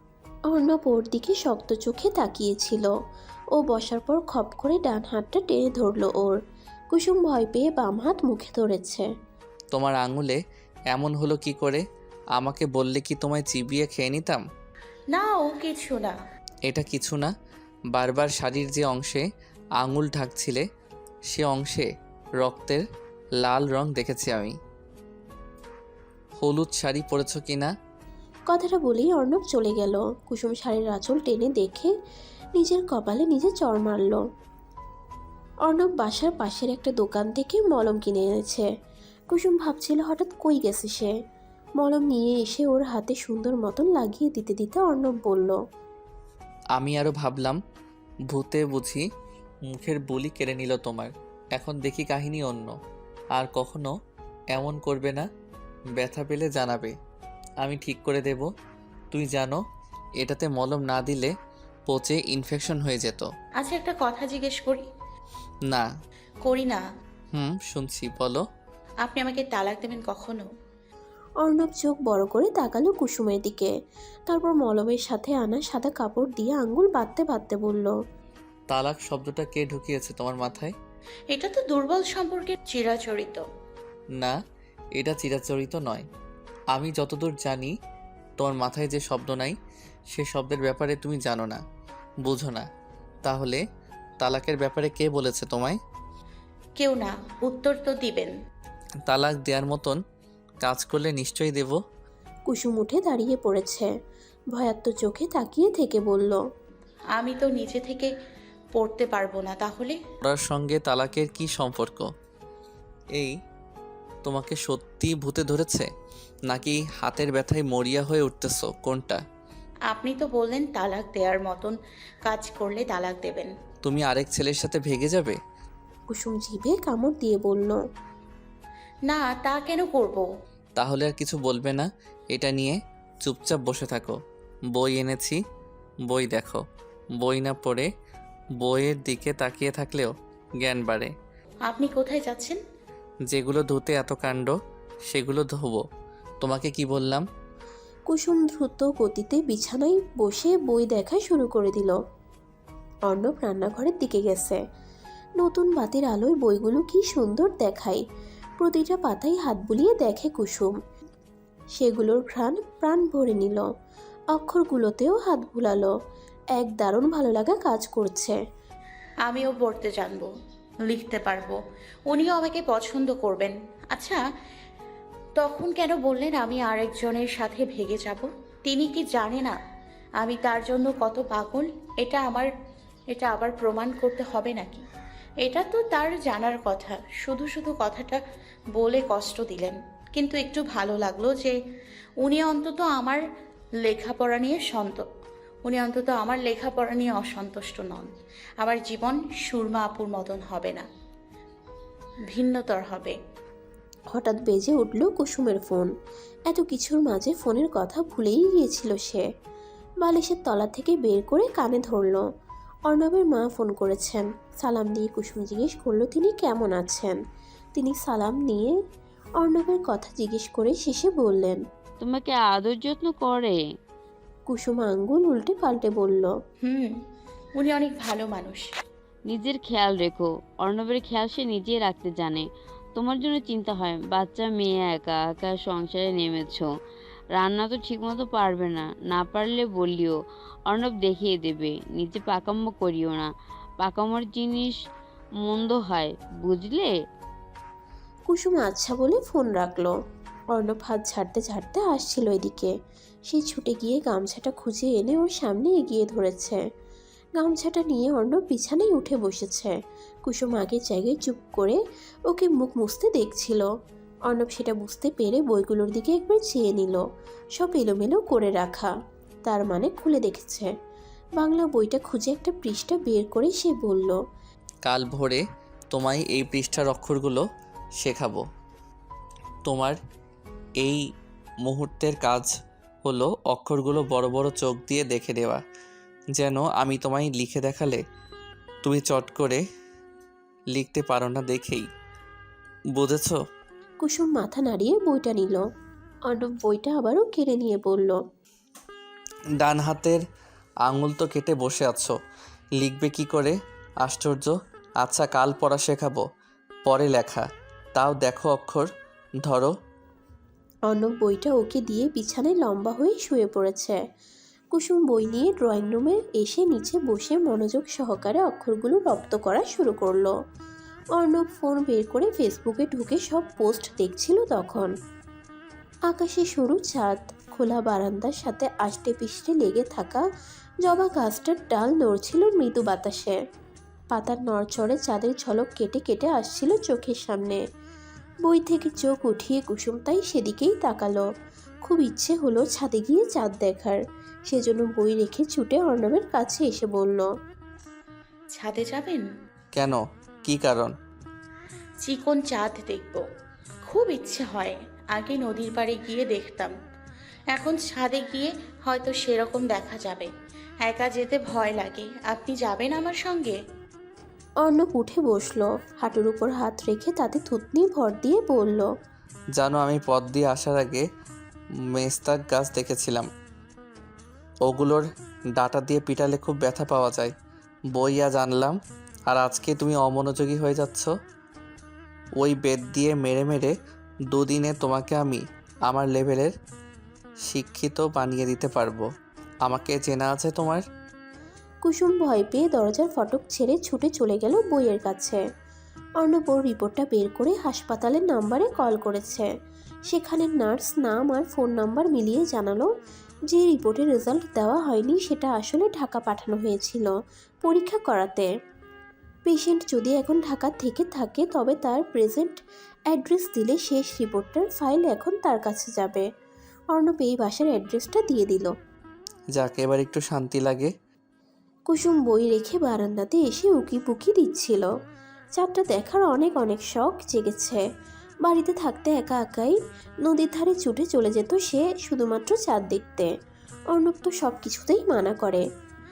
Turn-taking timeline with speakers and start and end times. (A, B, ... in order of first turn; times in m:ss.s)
0:00.5-0:02.9 A
0:03.6-0:06.4 A
0:06.9-0:09.1 A
0:09.7-0:10.4 B
0:10.9-0:11.8 B
0:12.4-0:14.4 B
0:15.1-0:16.1 C
0:16.7-0:17.3 B
0:17.9-0:19.2 B
0:19.8-0:20.6 B
0:21.3-0:21.9 B
0:22.4-0:22.8 B
0:23.4-0:24.6 B
0:26.4-0:27.7 B
0:28.5-0:31.9 A
0:32.6-0:34.2 A
0:35.7-0:38.7 A
0:39.3-0:41.1 A
0:41.8-0:45.6 A
0:46.8-0:47.6 B
0:48.3-0:49.0 B
0:49.7-0:52.7 B
0:53.4-0:53.9 B
0:54.5-0:55.2 B
0:56.0-0:56.9 B
0:57.6-0:58.5 B
0:59.1-0:59.6 B
1:00.2-1:01.3 B
1:01.9-1:03.3 B
1:03.6-1:04.8 C
1:06.5-1:06.8 C
1:07.3-1:08.4 B
1:09.0-1:10.4 C
1:11.4-1:13.7 A
1:14.3-1:17.9 A
1:18.7-1:20.7 B
1:21.3-1:23.4 C
1:25.0-1:26.0 B
1:26.7-1:27.7 B
1:28.4-1:29.6 B
1:30.1-1:31.6 B
1:32.2-1:32.7 B
1:33.2-1:33.6 B
1:34.2-1:35.8 B
1:36.8-1:38.3 C
1:39.1-1:40.0 B
1:40.6-1:41.8 B
1:42.5-1:43.9 A
1:44.5-1:46.4 A
1:47.2-1:48.1 C
1:48.8-1:50.0 C
1:50.2-1:52.1 B
1:54.2-1:55.9 B
1:56.5-1:59.2 B
1:59.9-2:03.5 C
2:03.8-2:05.4 B
2:06.1-2:07.8 A
2:09.1-2:10.3 C
2:10.8-2:14.2 B
2:14.7-2:15.4 B
2:16.1-2:16.6 B
2:17.2-2:17.9 B
2:18.6-2:21.1 B
2:21.7-2:22.6 C
2:23.3-2:24.5 B
2:25.1-2:25.8 B
2:26.4-2:27.2 B
2:28.1-2:32.0 A
2:33.1-2:34.6 A
2:35.4-2:38.0 A
2:38.6-2:40.7 A
2:41.8-2:43.6 A
2:44.4-2:45.9 A
2:46.6-2:48.4 A
2:49.3-2:50.3 C
2:50.9-2:51.6 C
2:52.1-2:54.2 C
2:55.4-2:59.6 C
3:00.2-3:02.5 C
3:03.2-3:04.8 C
3:05.4-3:08.2 C
3:08.8-3:11.6 C
3:12.2-3:13.2 C
3:13.8-3:15.1 C
3:15.7-3:18.1 C
3:18.6-3:20.8 C
3:22.3-3:23.2 C
3:24.1-3:25.9 A
3:26.5-3:29.2 A
3:30.0-3:32.2 A
3:32.9-3:37.2 A
3:37.8-3:38.8 A
3:39.4-3:41.6 A
3:42.0-3:43.6 D
3:44.5-3:46.3 A
3:46.6-3:46.9 C
3:47.6-3:48.6 C
3:49.3-3:56.7 D
3:57.4-4:00.2 D
4:00.7-4:04.8 D
4:05.4-4:06.9 D
4:08.3-4:09.9 A
4:10.6-4:12.7 A
4:13.3-4:16.6 A
4:17.4-4:19.7 A
4:20.3-4:23.7 A
4:24.3-4:27.0 A
4:27.6-4:28.9 A
4:29.5-4:30.7 A
4:31.4-4:34.2 A
4:34.8-4:37.4 B
4:38.0-4:38.4 B
4:39.6-4:40.0 B
4:41.6-4:42.5 B
4:43.0-4:45.6 B
4:46.4-4:48.0 B
4:48.8-4:49.6 B
4:50.7-4:51.9 B
4:52.9-4:53.4 B
4:54.0-4:55.6 A
4:56.3-4:58.2 A
4:59.6-5:00.2 B
5:00.9-5:02.1 B
5:02.8-5:06.2 B
5:06.8-5:08.9 B
5:09.4-5:09.7 B
5:10.9-5:14.0 A
5:14.7-5:20.3 A
5:21.2-5:24.9 A
5:26.1-5:30.2 A
5:30.8-5:33.4 A
5:34.1-5:37.6 A
5:38.5-5:41.2 A
5:41.8-5:47.3 A
5:48.6-5:49.2 C
5:49.7-5:50.9 B
5:52.0-5:53.2 C
5:53.9-5:56.7 C
5:57.5-6:00.3 C
6:00.9-6:03.6 C
6:04.6-6:08.9 A
6:09.6-6:11.0 B
6:12.0-6:13.3 B
6:14.6-6:17.3 B
6:17.9-6:21.1 B
6:22.4-6:23.7 B
6:24.3-6:26.5 B
6:27.4-6:29.0 B
6:29.6-6:30.8 B
6:31.8-6:35.4 A
6:36.2-6:39.5 A
6:40.1-6:42.9 A
6:43.5-6:47.1 A
6:47.6-6:48.5 A
6:49.5-6:52.6 A
6:53.1-6:56.2 A
6:57.0-6:58.7 A
6:59.6-7:00.9 B
7:01.9-7:04.9 A
7:05.6-7:07.8 A
7:08.5-7:13.3 A
7:13.9-7:15.6 A